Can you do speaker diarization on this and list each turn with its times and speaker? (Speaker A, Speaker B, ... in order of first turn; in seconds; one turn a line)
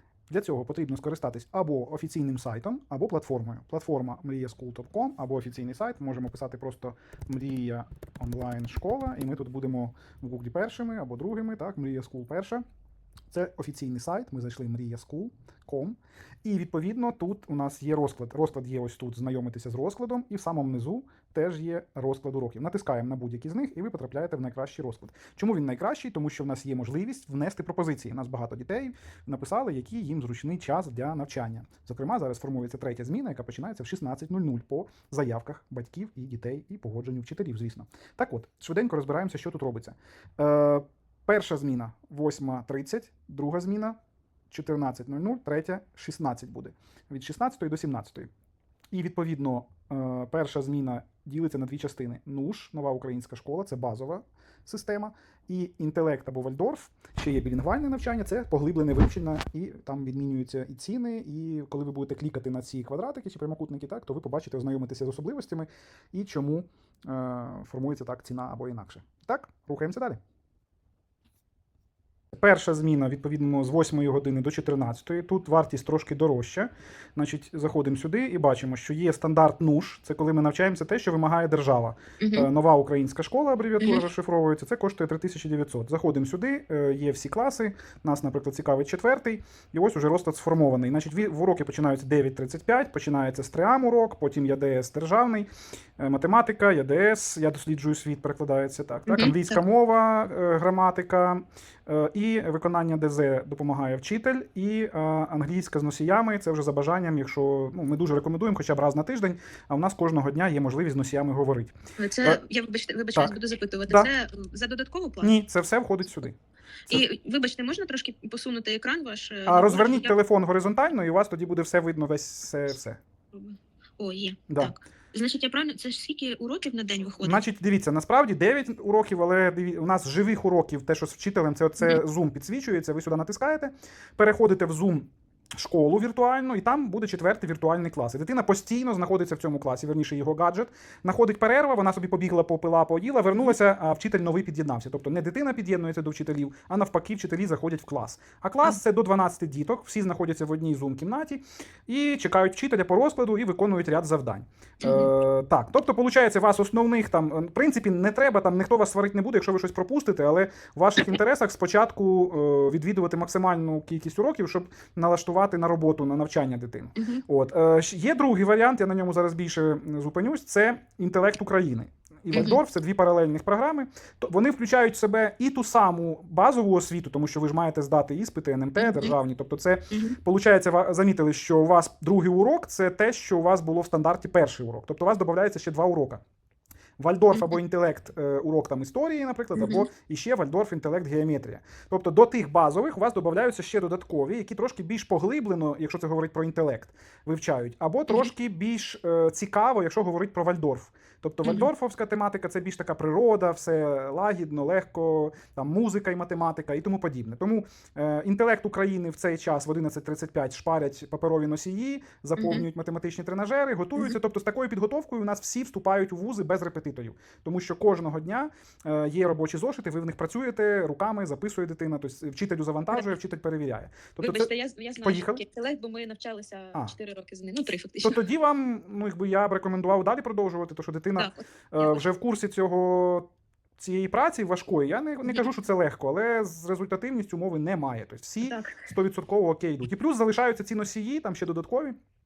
Speaker A: 0.3-12.6
Speaker A: 13.3-44.0
Speaker A: 44.5-48.3
Speaker A: 48.9-70.2
Speaker A: 72.3-112.4
Speaker B: 82.2-82.5
Speaker B: 99.1-99.5
Speaker B: 112.0-115.3
Speaker A: 115.2-116.4
Speaker B: 116.9-120.1
Speaker A: 119.5-123.0
Speaker B: 123.3-127.4
Speaker A: 124.5-124.7
Speaker A: 127.2-186.2
Speaker B: 154.8-155.1
Speaker B: 167.0-167.2
Speaker B: 172.3-172.6
Speaker B: 178.8-179.1
Speaker B: 179.9-180.2
Speaker A: 187.0-224.5
Speaker B: 187.3-187.6
Speaker B: 189.6-189.9
Speaker B: 201.4-201.7
Speaker B: 212.4-212.6
Speaker B: 224.2-228.2
Speaker A: 225.0-225.4
Speaker A: 228.0-241.9
Speaker B: 231.2-232.0
Speaker B: 238.4-238.8